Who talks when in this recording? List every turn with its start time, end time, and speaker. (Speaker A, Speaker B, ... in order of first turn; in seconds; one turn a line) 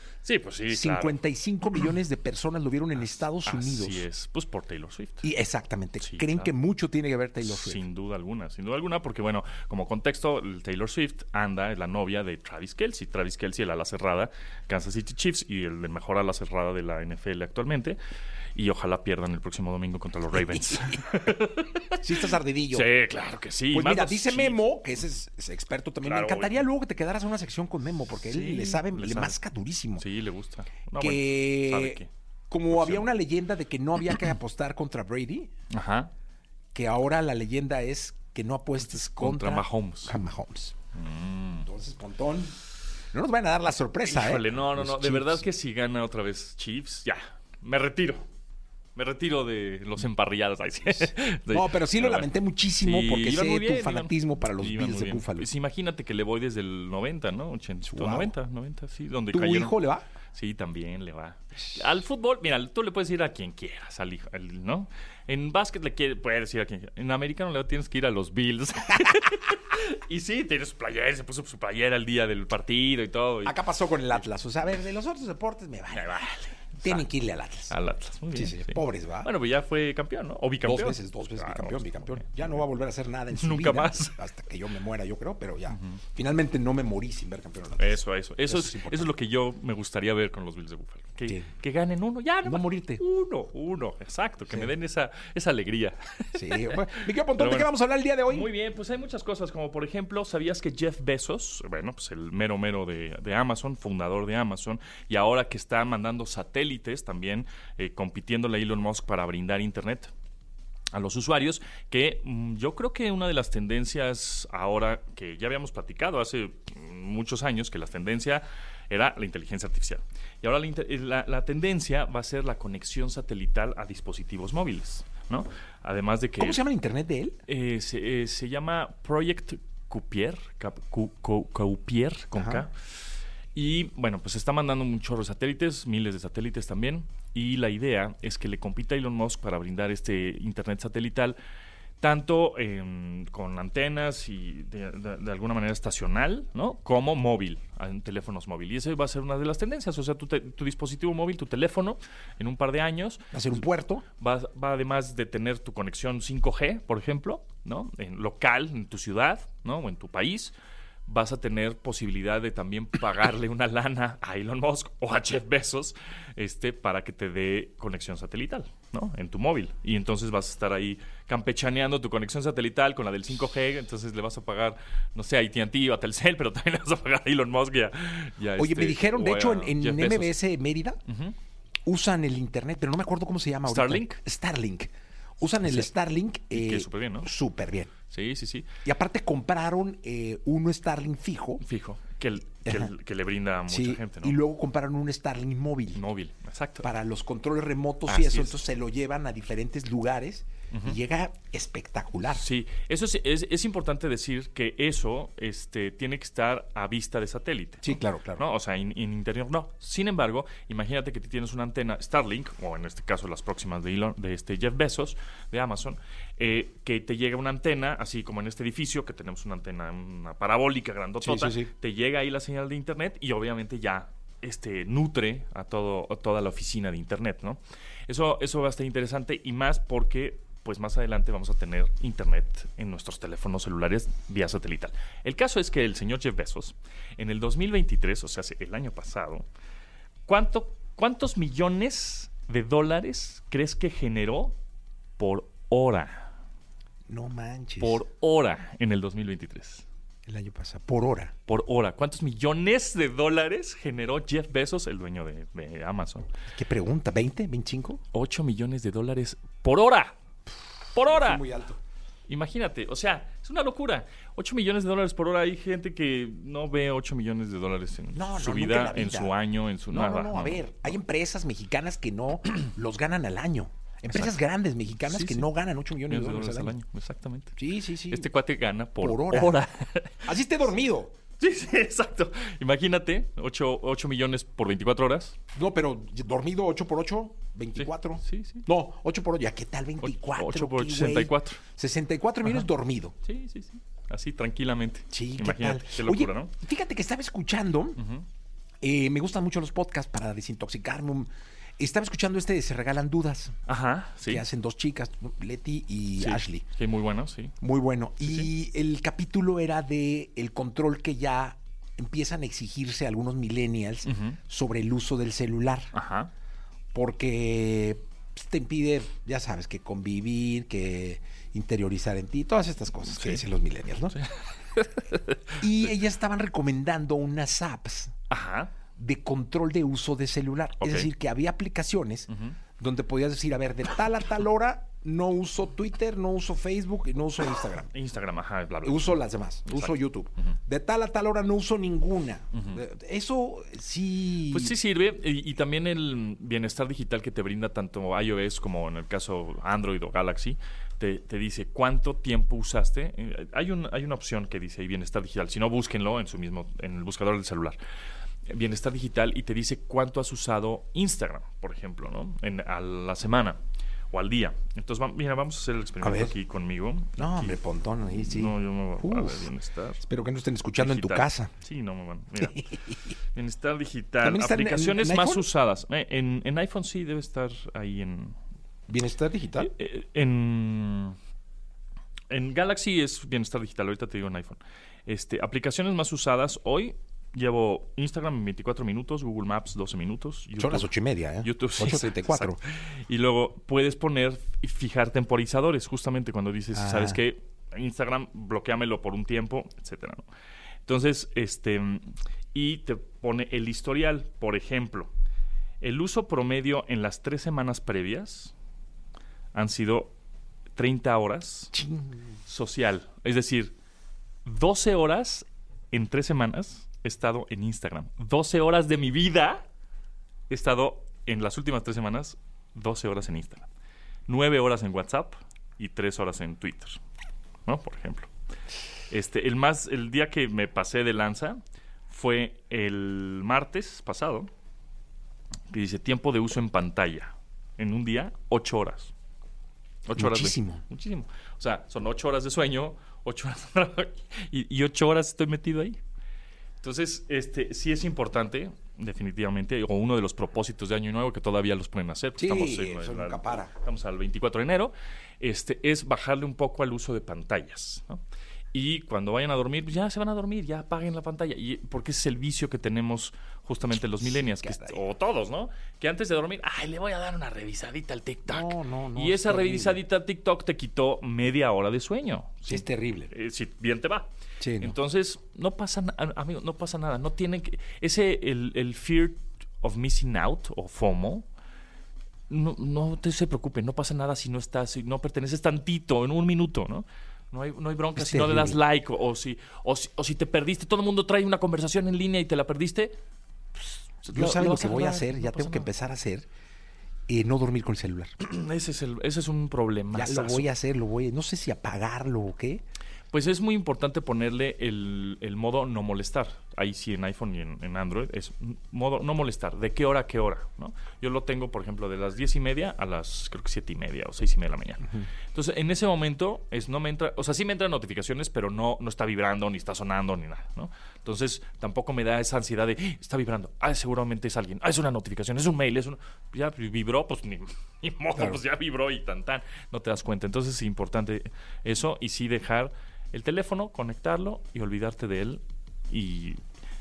Speaker A: 0.2-1.2
Speaker B: 0.7-4.1
Speaker A: 3.4-5.3
Speaker B: 5.2-7.8
Speaker A: 6.0-6.5
Speaker A: 7.4-18.0
Speaker A: 18.5-24.7
Speaker B: 20.3-21.0
Speaker B: 22.0-22.9
Speaker B: 23.7-30.1
Speaker A: 26.0-26.6
Speaker A: 28.2-29.4
Speaker A: 30.0-32.1
Speaker B: 31.0-35.5
Speaker A: 32.7-33.1
Speaker A: 35.7-36.1
Speaker B: 36.7-40.7
Speaker A: 38.8-40.1
Speaker A: 40.9-41.7
Speaker B: 41.6-42.5
Speaker B: 43.1-45.4
Speaker A: 44.0-48.2
Speaker A: 49.0-59.8
Speaker B: 51.5-55.5
Speaker B: 57.8-58.3
Speaker B: 59.3-60.0
Speaker A: 60.3-73.6
Speaker B: 73.4-76.2
Speaker A: 75.9-77.0
Speaker B: 76.8-77.7
Speaker A: 77.7-82.5
Speaker B: 78.3-79.3
Speaker B: 80.6-89.1
Speaker A: 83.3-84.2
Speaker A: 85.7-86.0
Speaker A: 87.8-96.8
Speaker B: 92.4-93.0
Speaker B: 94.5-94.7
Speaker B: 96.3-98.5
Speaker A: 97.3-97.7
Speaker A: 98.3-110.1
Speaker A: 110.9-126.6
Speaker B: 126.4-127.4
Speaker A: 127.5-132.8
Speaker B: 132.3-132.6
Speaker A: 133.5-141.4
Speaker A: 142.0-153.3
Speaker B: 153.3-154.0
Speaker A: 154.2-160.5
Speaker A: 161.1-180.4
Speaker B: 178.6-181.0
Speaker A: 181.1-181.3
Speaker B: 181.8-187.9
Speaker A: 183.7-184.2
Speaker A: 186.5-187.3
Speaker A: 188.1-188.7
Speaker B: 188.8-191.6
Speaker A: 191.6-194.4
Speaker B: 192.6-192.9
Speaker B: 193.7-196.0
Speaker A: 195.9-196.9
Speaker B: 196.8-202.4
Speaker A: 198.1-198.6
Speaker A: 200.7-201.0
Speaker A: 202.3-239.5
Speaker B: 207.8-208.4
Speaker B: 221.2-221.7
Speaker A: 240.2-244.6
Speaker A: 245.2-246.3
Speaker B: 247.1-248.0
Speaker A: 247.8-249.8
Speaker B: 250.2-251.3
Speaker A: 251.4-256.3
Speaker B: 256.5-258.0
Speaker A: 258.1-260.1
Speaker A: 260.9-261.4
Speaker B: 261.0-261.8
Speaker A: 262.3-271.0
Speaker B: 268.1-269.3
Speaker B: 269.9-276.8
Speaker A: 274.1-274.4
Speaker A: 275.0-275.5
Speaker A: 276.1-277.6
Speaker B: 277.6-278.3
Speaker A: 278.1-280.4
Speaker B: 279.0-279.6
Speaker B: 280.2-281.1
Speaker A: 281.4-285.4
Speaker B: 285.5-293.1
Speaker A: 287.8-288.7
Speaker A: 290.0-291.6
Speaker A: 293.2-296.5
Speaker B: 295.1-298.0
Speaker A: 298.0-298.2
Speaker B: 298.8-303.5
Speaker A: 303.6-304.4
Speaker B: 304.2-306.6
Speaker A: 306.2-307.5
Speaker B: 307.6-315.9
Speaker A: 308.2-308.5
Speaker A: 314.0-314.4
Speaker A: 315.9-316.3
Speaker B: 316.9-324.2
Speaker A: 323.1-323.4
Speaker A: 324.1-325.6
Speaker B: 325.6-328.1
Speaker A: 328.3-328.7
Speaker B: 328.9-337.9
Speaker A: 330.8-331.1
Speaker A: 332.3-332.6
Speaker A: 337.9-340.5
Speaker B: 338.8-344.7
Speaker A: 342.5-342.8
Speaker A: 344.5-357.8
Speaker A: 358.5-363.6
Speaker A: 364.1-370.0
Speaker B: 366.0-366.3
Speaker B: 367.2-371.5
Speaker A: 370.8-372.7
Speaker B: 372.4-372.9
Speaker A: 373.3-378.4
Speaker B: 374.2-375.5
Speaker B: 378.9-379.7
Speaker A: 379.6-381.1
Speaker A: 382.3-390.9
Speaker B: 390.6-392.6
Speaker A: 391.4-400.2
Speaker B: 396.7-397.2
Speaker A: 400.9-405.1
Speaker A: 405.8-408.5
Speaker A: 409.5-410.1
Speaker A: 410.7-411.8
Speaker B: 411.7-412.3
Speaker A: 412.4-413.7
Speaker A: 414.4-419.6
Speaker A: 420.5-423.7
Speaker A: 424.3-427.0
Speaker A: 427.6-428.3
Speaker A: 429.1-434.5
Speaker A: 435.7-439.1
Speaker A: 440.1-446.0
Speaker B: 440.1-440.8
Speaker A: 446.8-458.2
Speaker B: 452.4-453.7
Speaker A: 458.7-474.3
Speaker B: 464.2-465.0
Speaker B: 468.5-470.0
Speaker B: 472.7-473.3
Speaker B: 474.6-474.9
Speaker A: 474.8-481.4
Speaker A: 482.5-493.1
Speaker B: 488.1-488.8
Speaker A: 494.2-495.9
Speaker B: 494.3-496.5
Speaker B: 497.3-498.3
Speaker A: 498.4-500.7
Speaker B: 500.1-502.8
Speaker A: 503.3-536.6
Speaker B: 528.3-528.6